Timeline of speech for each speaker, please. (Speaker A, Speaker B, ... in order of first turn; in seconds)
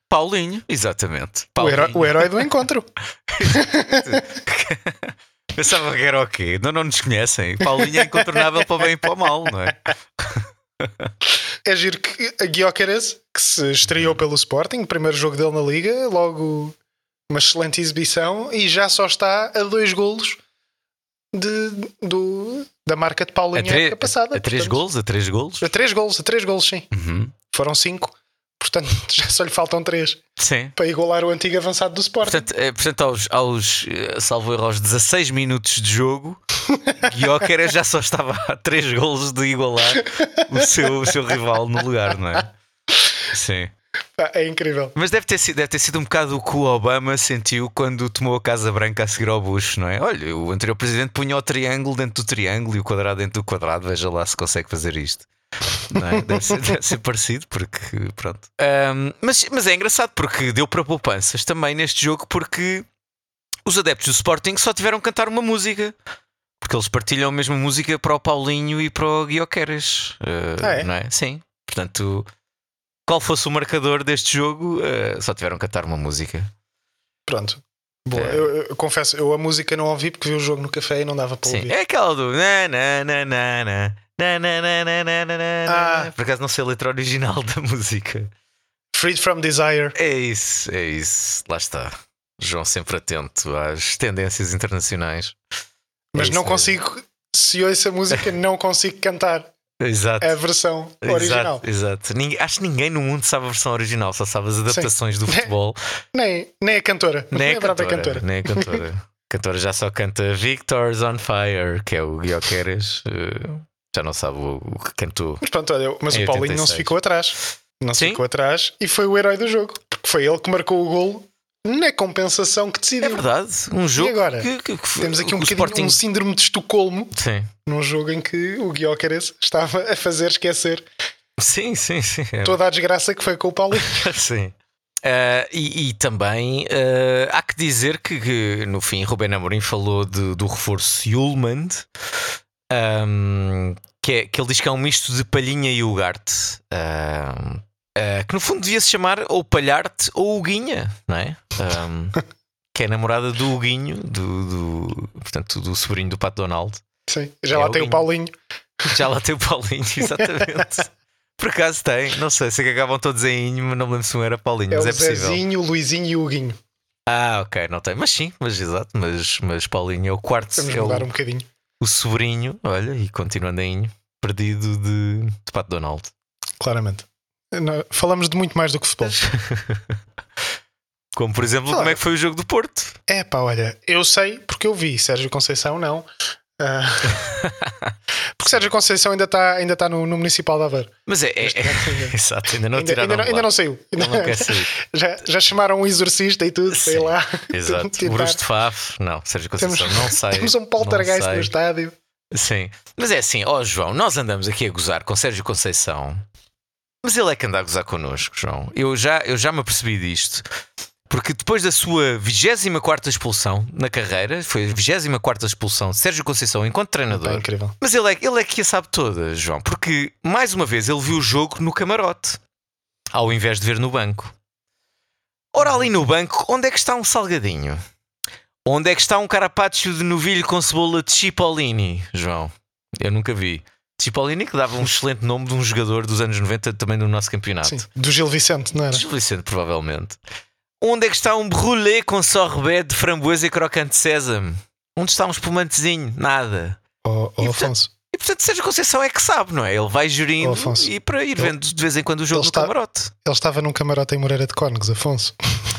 Speaker A: 0.1-2.5, 3.3-11.1, 23.5-25.7, 26.9-27.3, 30.4-30.8, 32.2-36.4, 37.0-42.5, 43.3-43.7, 45.0-55.3, 55.9-62.9, 63.7-66.0, 66.6-72.3, 73.1-76.5, 78.2-78.5, 81.4-88.3, 90.0-95.3, 96.2-96.8, 99.8-100.4, 101.0-105.8, 107.3-115.4, 116.1-116.9, 118.0-118.2, 123.0-126.0, 127.1-127.5, 131.4-132.6, 133.9-141.9, 142.7-152.2, 152.7-156.8, 157.5-158.1, 158.9-165.4, 167.1-171.1, 171.8-176.1, 179.1-180.0, 181.2-183.0, 187.1-188.7, 191.1-194.7, 196.7-201.5, 202.3-206.2, 207.0-210.5, 211.1-222.4, 223.1-224.3, 225.5-227.8, 228.7-237.8, 238.9-240.2, 240.8-246.8, 247.4-253.1
Speaker B: 1.6-2.9, 3.4-4.4, 7.6-8.8, 11.6-16.8, 17.3-20.4, 21.3-24.8, 25.6-26.9, 27.5-30.2, 30.8-32.5, 40.0-40.5, 44.2-45.0, 70.6-70.9, 77.3-81.8, 85.7-86.1, 88.9-90.0, 96.1-99.5, 100.2-101.6, 104.7-105.5, 106.1-108.8, 115.4-123.3, 124.0-127.1, 127.7-130.9, 132.4-134.1, 157.1-158.3, 160.1-160.7, 164.7-166.6, 170.6-171.5, 176.6-179.2, 181.7-182.0, 183.1-186.1, 186.6-187.2, 188.4-192.2, 192.7-198.4, 199.6-201.9, 217.1-217.8, 237.6-239.0, 247.0-247.9, 250.4-251.6, 252.3-255.3